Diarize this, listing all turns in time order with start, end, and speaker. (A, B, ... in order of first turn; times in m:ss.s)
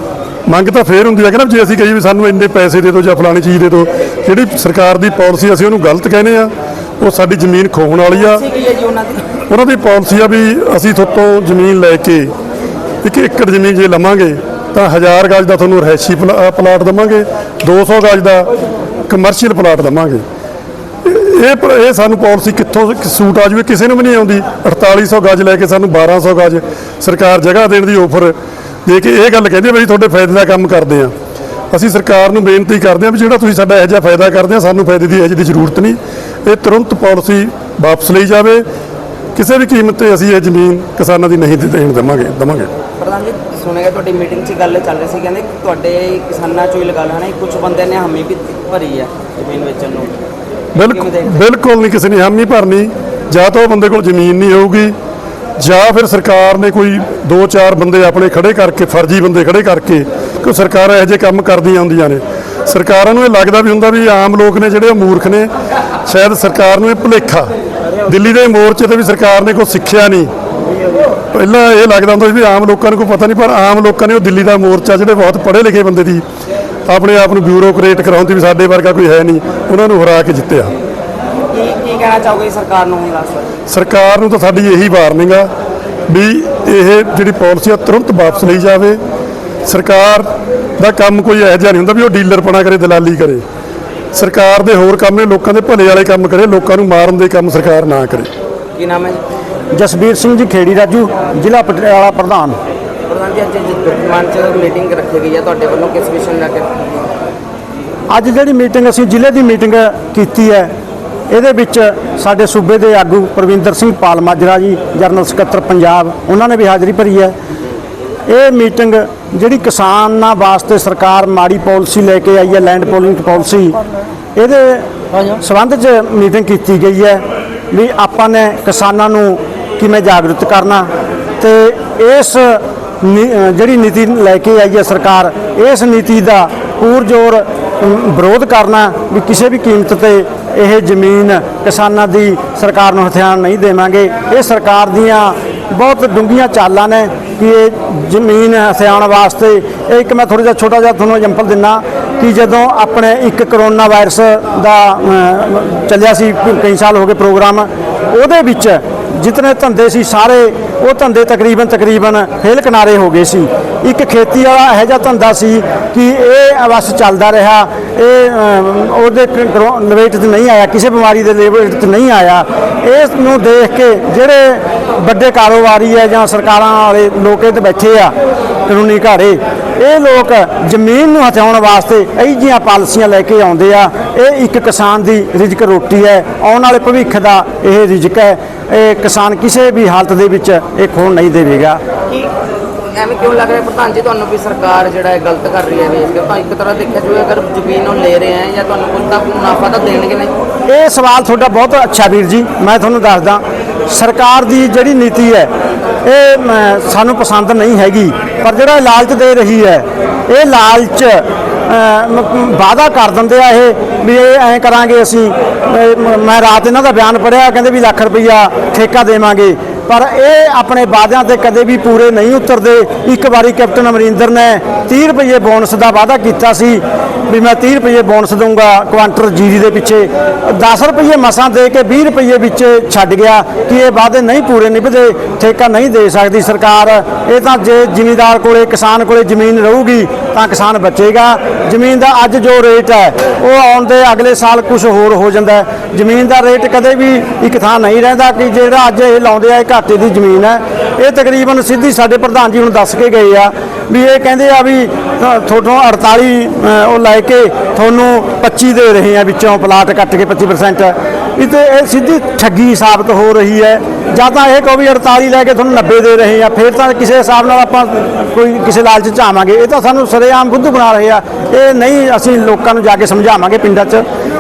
0:00.5-0:08.5 A
0:08.2-0:09.2 B
0:09.5-0:12.3 A
0:13.0-0:18.5 A
0:19.1-0:20.2 A
0:21.0-0:31.1 A
0:31.7-0:38.7 A
0:39.4-0:42.7 A
0:43.0-0:50.2 B
0:50.8-0:55.0 A
0:50.8-0:51.4 B
0:55.6-1:05.5 A
1:06.0-1:10.3 A
1:11.3-1:16.2 A
1:16.9-1:20.8 A
1:21.5-1:23.6 B
1:23.7-1:25.5 A
1:26.1-1:29.0 A
1:29.6-1:33.4 A
1:34.1-1:38.3 A
1:38.8-1:39.2 B
1:39.7-1:42.6 C
1:43.1-1:46.9 B
1:48.1-1:50.7 C
1:51.3-1:57.4 C
1:58.3-2:03.8 C
2:04.4-2:58.1 C
2:58.7-3:11.8 C
3:12.9-3:20.3 B
3:20.7-3:25.5 C
3:26.0-4:34.0 C